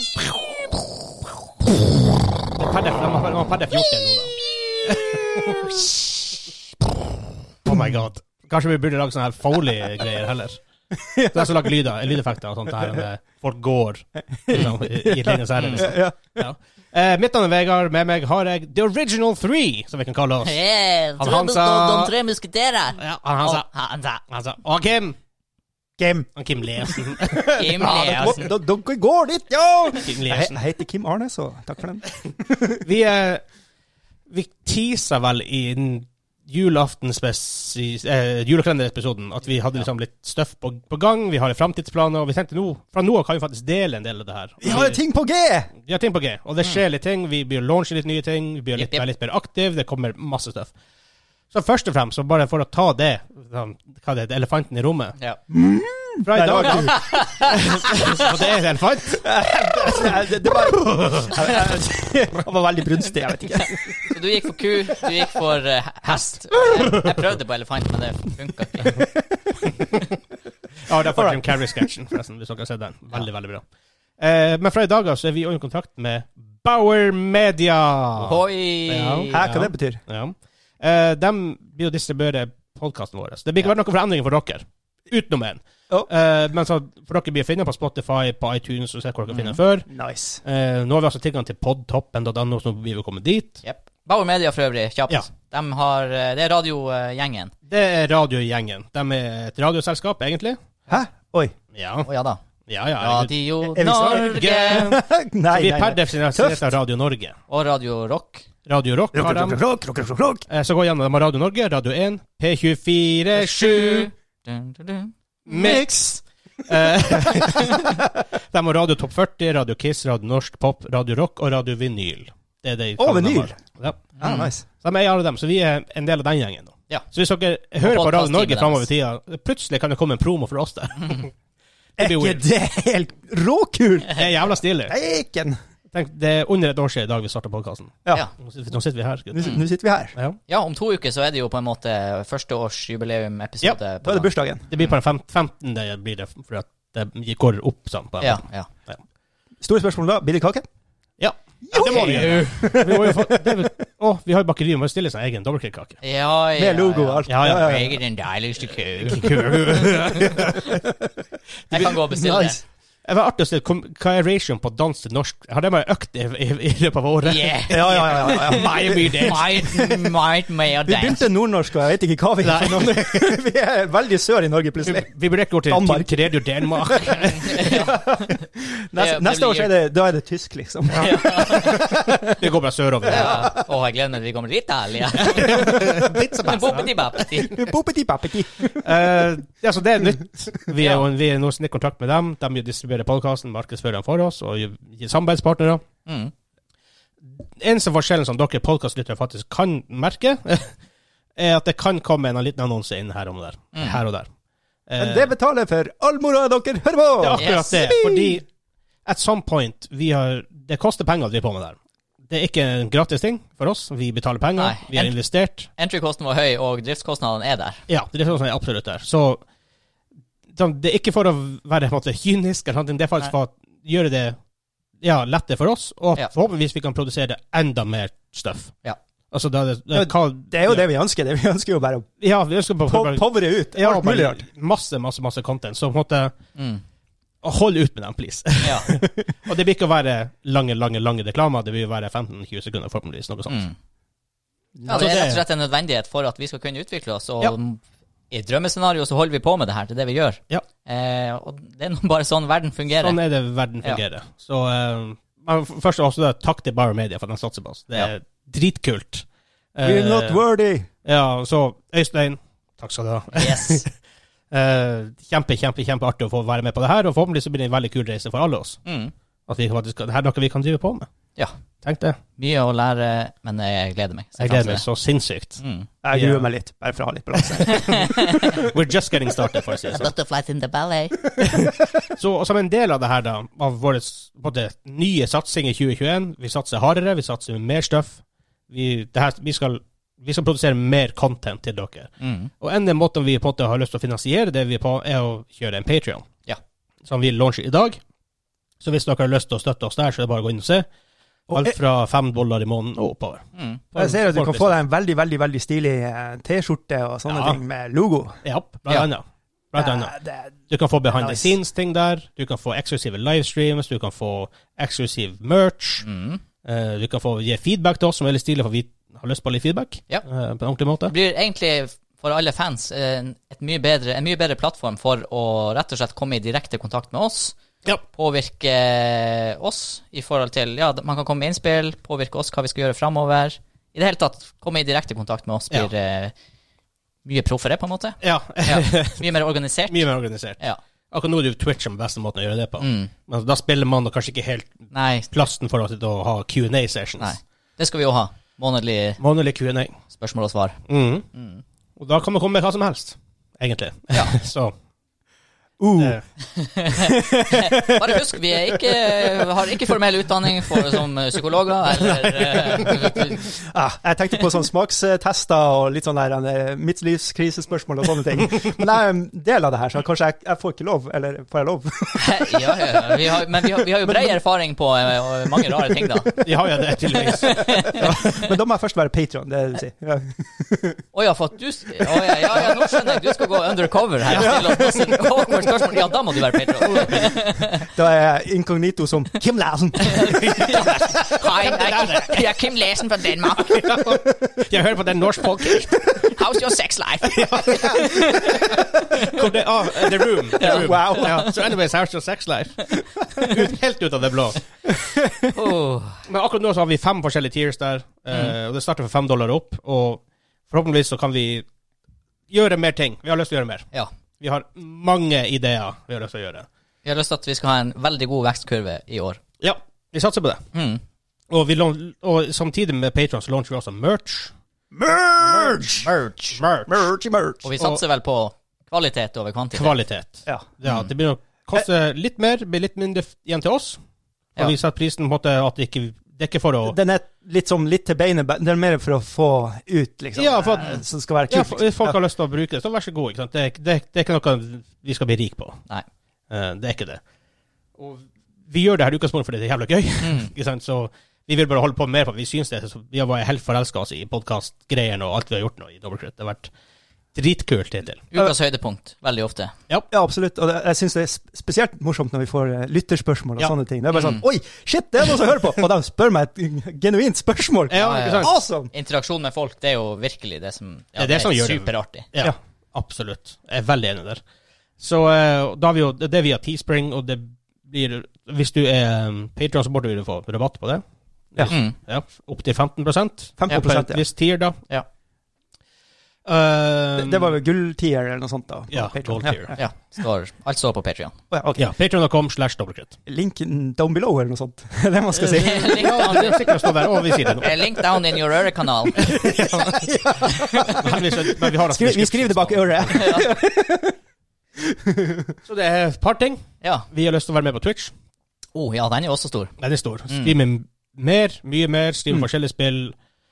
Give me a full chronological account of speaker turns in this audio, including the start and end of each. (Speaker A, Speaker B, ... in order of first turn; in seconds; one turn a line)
Speaker A: 0.1-0.8
Speaker B: 2.5-5.7
Speaker A: 4.4-6.5
Speaker B: 7.7-10.6
Speaker A: 10.9-11.7
Speaker B: 11.3-20.6
Speaker A: 14.4-16.4
Speaker C: 15.6-15.9
Speaker C: 20.4-24.2
Speaker B: 21.2-22.1
Speaker B: 23.0-23.7
Speaker B: 24.3-25.2
Speaker A: 26.0-26.3
Speaker B: 26.3-27.6
Speaker A: 27.2-32.8
Speaker C: 27.4-28.5
Speaker B: 29.9-30.6
Speaker B: 32.8-33.4
Speaker B: 34.3-45.0
Speaker A: 44.6-45.7
Speaker B: 45.8-50.7
Speaker C: 48.8-49.0
Speaker B: 51.5-55.1
Speaker A: 55.5-58.2
Speaker B: 56.2-60.1
Speaker C: 56.6-58.3
Speaker A: 59.2-63.8
Speaker B: 60.8-61.3
Speaker C: 63.6-69.0
Speaker A: 66.5-67.0
Speaker A: 68.8-69.1
Speaker B: 70.8-73.6
Speaker A: 71.1-71.8
Speaker B: 74.2-89.9
Speaker C: 78.2-79.4
Speaker A: 79.3-80.0
Speaker C: 89.3-89.6
Speaker A: 89.9-90.4
Speaker B: 90.4-93.6
Speaker C: 93.6-97.5
Speaker B: 97.7-100.6
Speaker A: 100.9-101.5
Speaker B: 101.7-102.1
Speaker C: 102.0-102.4
Speaker B: 102.7-103.4
Speaker C: 103.0-104.9
Speaker A: 103.6-106.7
Speaker B: 104.0-107.4
Speaker C: 107.5-108.5
Speaker B: 108.7-109.6
Speaker A: 109.1-110.5
Speaker B: 110.5-114.1
Speaker C: 113.3-115.1
Speaker B: 115.5-115.9
Speaker A: 115.5-116.2
Speaker B: 116.6-118.0
Speaker B: 118.5-124.1
Speaker A: 123.0-123.6
Speaker C: 124.2-124.5
Speaker A: 124.2-124.6
Speaker B: 124.6-131.3
Speaker C: 127.8-128.9
Speaker B: 132.0-132.4
Speaker A: 132.0-134.2
Speaker B: 134.1-134.9
Speaker A: 134.9-135.6
Speaker B: 135.9-139.5
Speaker A: 139.3-140.1
Speaker C: 139.4-139.6
Speaker C: 140.5-144.9
Speaker A: 144.0-144.7
Speaker B: 144.7-149.0
Speaker C: 148.2-148.7
Speaker A: 149.6-150.7
Speaker B: 151.2-156.0
Speaker A: 151.6-153.7
Speaker C: 151.8-152.6
Speaker C: 156.0-160.5
Speaker A: 156.6-158.0
Speaker B: 157.3-157.8
Speaker B: 159.0-160.8
Speaker A: 160.2-161.1
Speaker C: 161.7-162.6
Speaker A: 161.7-162.6
Speaker B: 163.0-169.6
Speaker C: 167.2-171.2
Speaker A: 167.7-170.2
Speaker A: 170.8-175.1
Speaker B: 172.4-173.4
Speaker B: 174.8-177.8
Speaker A: 175.7-182.4
Speaker C: 177.2-178.3
Speaker C: 178.9-179.8
Speaker C: 180.9-181.8
Speaker B: 182.3-183.5
Speaker A: 183.1-183.7
Speaker C: 183.1-187.7
Speaker B: 185.2-187.2
Speaker A: 185.4-186.1
Speaker A: 187.3-188.9
Speaker B: 188.7-195.8
Speaker C: 196.1-196.3
Speaker B: 197.4-200.8
Speaker B: 201.3-204.3
Speaker C: 203.7-204.0
Speaker B: 204.9-205.3
Speaker A: 205.0-208.4
Speaker B: 207.2-208.5
Speaker C: 207.4-207.9
Speaker B: 209.0-211.8
Speaker B: 212.3-215.7
Speaker C: 214.6-217.8
Speaker B: 217.9-219.4
Speaker B: 220.5-224.3
Speaker B: 225.0-228.8
Speaker B: 229.3-230.9
Speaker A: 229.9-232.1
Speaker B: 232.2-236.3
Speaker A: 232.9-234.4
Speaker C: 236.5-236.8
Speaker B: 237.4-243.7
Speaker C: 238.6-238.9
Speaker C: 243.5-243.7
Speaker A: 244.8-245.2
Speaker C: 244.9-253.2
Speaker B: 244.9-245.4
Speaker B: 252.9-260.4
Speaker A: 259.8-260.9
Speaker B: 261.0-263.9
Speaker C: 263.4-263.8
Speaker B: 264.5-268.8
Speaker C: 268.9-269.1
Speaker B: 269.5-271.1
Speaker B: 271.8-272.2
Speaker C: 272.4-274.8
Speaker B: 274.4-275.6
Speaker C: 275.6-275.9
Speaker A: 276.0-278.1
Speaker B: 276.1-276.4
Speaker B: 277.5-280.1
Speaker C: 277.7-278.6
Speaker C: 280.0-281.3
Speaker A: 281.4-281.7
Speaker B: 281.4-296.3
Speaker C: 292.2-292.5
Speaker B: 297.0-298.0
Speaker B: 298.8-300.9
Speaker A: 301.5-301.7
Speaker B: 301.5-304.8
Speaker C: 303.5-303.8
Speaker A: 303.9-308.4
Speaker B: 307.3-307.6
Speaker B: 308.4-310.1
Speaker A: 309.8-310.5
Speaker B: 310.7-316.0
Speaker A: 311.1-311.5
Speaker C: 316.0-316.4
Speaker B: 316.6-321.1
Speaker C: 321.1-327.5
Speaker C: 328.1-336.3
Speaker C: 337.2-340.1
Speaker B: 338.2-339.2
Speaker B: 339.9-340.6
Speaker B: 341.1-347.3
Speaker C: 342.8-343.1
Speaker C: 344.9-345.3
Speaker C: 347.2-349.2
Speaker B: 349.2-349.9
Speaker C: 350.1-350.8
Speaker B: 350.9-351.2
Speaker C: 351.3-351.6
Speaker B: 351.9-354.7
Speaker A: 355.8-356.2
Speaker C: 356.5-363.5
Speaker A: 356.9-359.9
Speaker A: 360.6-361.1
Speaker A: 361.9-374.4
Speaker C: 372.2-376.4
Speaker A: 375.5-376.3
Speaker B: 376.4-378.3
Speaker C: 377.4-378.4
Speaker A: 377.5-381.0
Speaker C: 381.1-387.9
Speaker A: 382.0-383.5
Speaker A: 384.3-386.0
Speaker A: 386.5-390.9
Speaker C: 390.0-393.9
Speaker B: 390.5-392.5
Speaker B: 393.6-396.3
Speaker A: 394.1-394.6
Speaker C: 396.2-399.4
Speaker B: 397.3-404.6
Speaker A: 397.8-399.2
Speaker A: 400.6-401.5
Speaker C: 400.6-401.5
Speaker A: 404.9-405.6
Speaker C: 405.5-406.2
Speaker B: 406.2-411.6
Speaker B: 412.5-413.9
Speaker B: 414.4-416.7
Speaker C: 417.0-419.4
Speaker B: 419.6-420.6
Speaker C: 420.7-421.0
Speaker B: 421.5-424.5
Speaker A: 424.9-426.1
Speaker C: 425.7-426.6
Speaker B: 426.5-427.0
Speaker A: 426.9-427.7
Speaker C: 427.6-429.9
Speaker B: 429.7-434.0
Speaker B: 434.6-437.0
Speaker A: 436.9-442.2
Speaker B: 440.4-445.8
Speaker B: 446.5-447.2
Speaker B: 448.0-456.7
Speaker C: 450.2-450.5
Speaker B: 457.3-458.2
Speaker C: 458.3-459.7
Speaker A: 460.1-468.9
Speaker C: 464.1-464.4
Speaker B: 467.9-468.5
Speaker C: 467.9-472.3
Speaker B: 471.1-474.4
Speaker B: 475.0-481.0
Speaker B: 481.5-484.8
Speaker C: 481.7-481.9
Speaker A: 483.6-484.2
Speaker B: 486.4-487.6
Speaker A: 487.1-489.8
Speaker B: 488.9-489.8
Speaker C: 489.8-491.3
Speaker A: 491.5-491.9
Speaker B: 491.8-493.1
Speaker A: 493.3-496.5
Speaker C: 495.4-496.8
Speaker B: 495.5-497.8
Speaker C: 497.6-499.3
Speaker B: 499.2-500.1
Speaker A: 499.2-504.1
Speaker C: 500.6-500.9
Speaker B: 500.9-503.4
Speaker C: 503.1-503.5
Speaker A: 504.8-505.5
Speaker B: 505.6-508.1
Speaker C: 506.8-507.1
Speaker C: 508.7-509.7
Speaker B: 509.8-513.1
Speaker C: 510.3-510.6